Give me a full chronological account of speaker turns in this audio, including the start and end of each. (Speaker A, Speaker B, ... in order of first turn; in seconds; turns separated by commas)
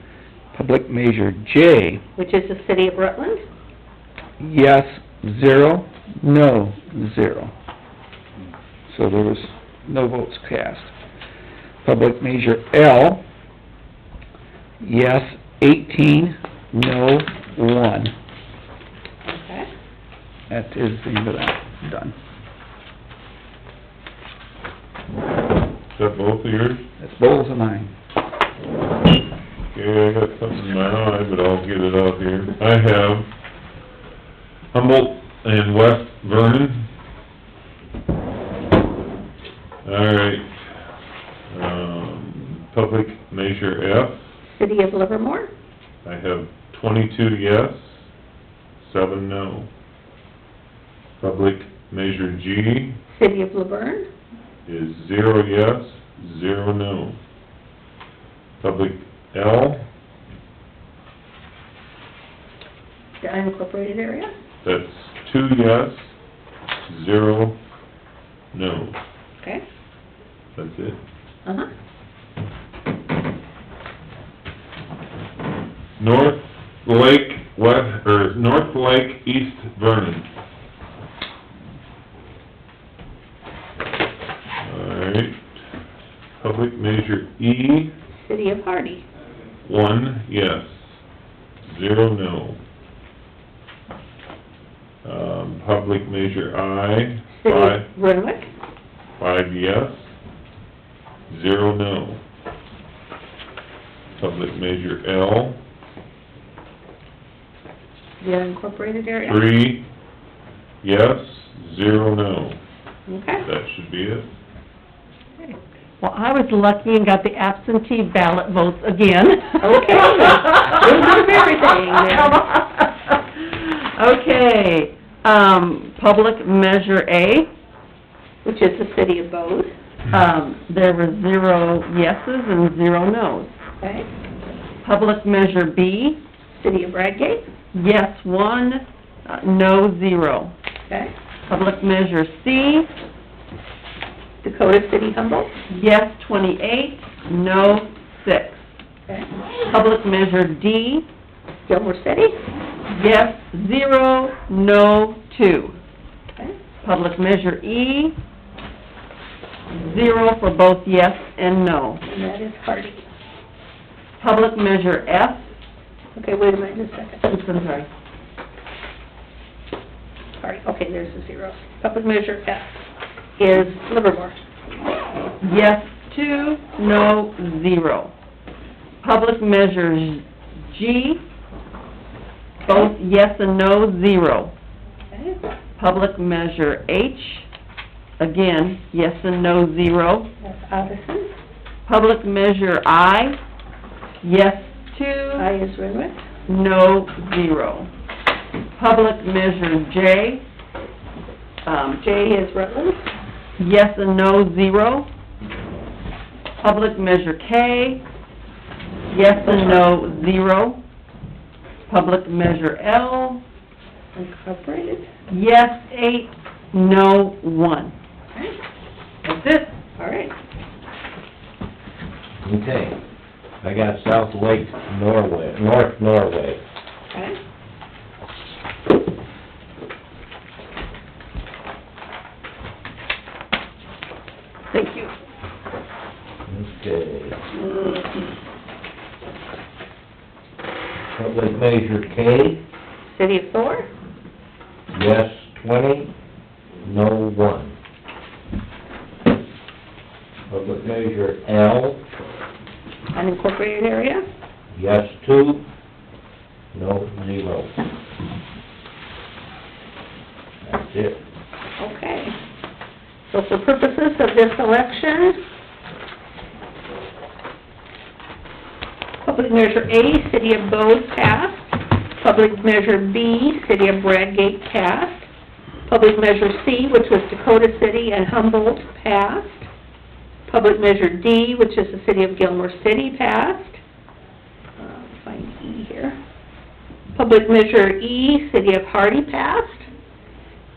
Speaker A: 0.5-2.0, Speaker B: 2.1-3.4, Speaker A: 4.4-7.5, Speaker A: 8.9-10.9, Speaker A: 11.8-13.2, Speaker A: 14.8-18.1, Speaker B: 19.2-19.7, Speaker A: 20.5-22.1, Speaker C: 25.9-26.9, Speaker A: 27.0-27.9, Speaker C: 29.7-33.3, Speaker C: 34.7-36.9, Speaker C: 39.8-40.5, Speaker C: 41.5-44.3, Speaker B: 44.5-45.5, Speaker C: 46.0-48.1, Speaker C: 48.8-49.7, Speaker C: 51.2-53.0, Speaker B: 53.1-54.1, Speaker C: 54.6-57.2, Speaker C: 58.6-59.9, Speaker B: 63.2-64.3, Speaker C: 64.6-66.1, Speaker C: 66.8-67.6, Speaker C: 68.5-69.0, Speaker C: 70.5-71.0, Speaker C: 76.0-80.3, Speaker C: 84.6-85.4, Speaker C: 86.4-87.9, Speaker B: 88.1-89.0, Speaker C: 89.6-91.0, Speaker C: 91.6-92.6, Speaker C: 95.0-97.8, Speaker B: 97.3-98.5, Speaker C: 99.2-100.1, Speaker C: 101.3-102.2, Speaker C: 104.2-105.6, Speaker B: 108.2-109.4, Speaker C: 109.2-109.8, Speaker C: 110.8-112.6, Speaker B: 113.1-113.4, Speaker C: 113.4-114.3, Speaker D: 115.5-127.5, Speaker B: 119.6-122.4, Speaker B: 128.4-129.7, Speaker D: 130.1-133.6, Speaker B: 133.8-134.1, Speaker D: 134.8-136.2, Speaker B: 136.5-137.5, Speaker D: 137.7-140.5, Speaker D: 141.5-142.9, Speaker B: 144.4-145.5, Speaker D: 145.7-148.6, Speaker D: 149.7-151.1, Speaker B: 151.7-152.4, Speaker D: 152.9-155.8, Speaker D: 156.8-158.1, Speaker D: 159.7-162.0, Speaker B: 162.1-163.0, Speaker D: 164.2-165.5, Speaker B: 166.2-167.2, Speaker D: 167.2-167.9, Speaker B: 170.4-172.8, Speaker B: 173.4-174.3, Speaker D: 175.4-178.1, Speaker D: 179.0-181.2, Speaker D: 182.7-184.5, Speaker B: 185.1-185.4, Speaker D: 185.8-187.5, Speaker D: 188.2-190.3, Speaker B: 190.4-191.3, Speaker D: 191.8-193.4, Speaker D: 194.2-195.5, Speaker B: 195.4-196.2, Speaker D: 196.5-197.9, Speaker D: 198.7-200.4, Speaker D: 201.7-202.0, Speaker B: 201.9-203.0, Speaker D: 203.6-205.1, Speaker D: 206.6-208.0, Speaker D: 209.1-210.8, Speaker B: 209.4-209.8, Speaker D: 211.9-213.4, Speaker B: 214.1-215.1, Speaker D: 215.3-217.9, Speaker D: 219.2-219.7, Speaker B: 220.0-220.3, Speaker E: 222.4-223.0, Speaker E: 223.6-226.6, Speaker B: 227.1-227.4, Speaker D: 234.7-235.1, Speaker E: 236.4-237.4, Speaker E: 241.1-242.6, Speaker B: 243.1-243.9, Speaker E: 244.9-246.1, Speaker E: 246.8-247.8, Speaker E: 250.5-252.0, Speaker B: 253.1-254.2, Speaker E: 254.7-255.6, Speaker E: 256.7-257.8, Speaker E: 260.6-261.2, Speaker B: 261.8-262.3, Speaker B: 263.3-265.4, Speaker B: 269.2-275.3, Speaker B: 275.9-279.7, Speaker B: 280.5-283.8, Speaker B: 284.8-286.2, Speaker B: 287.1-289.9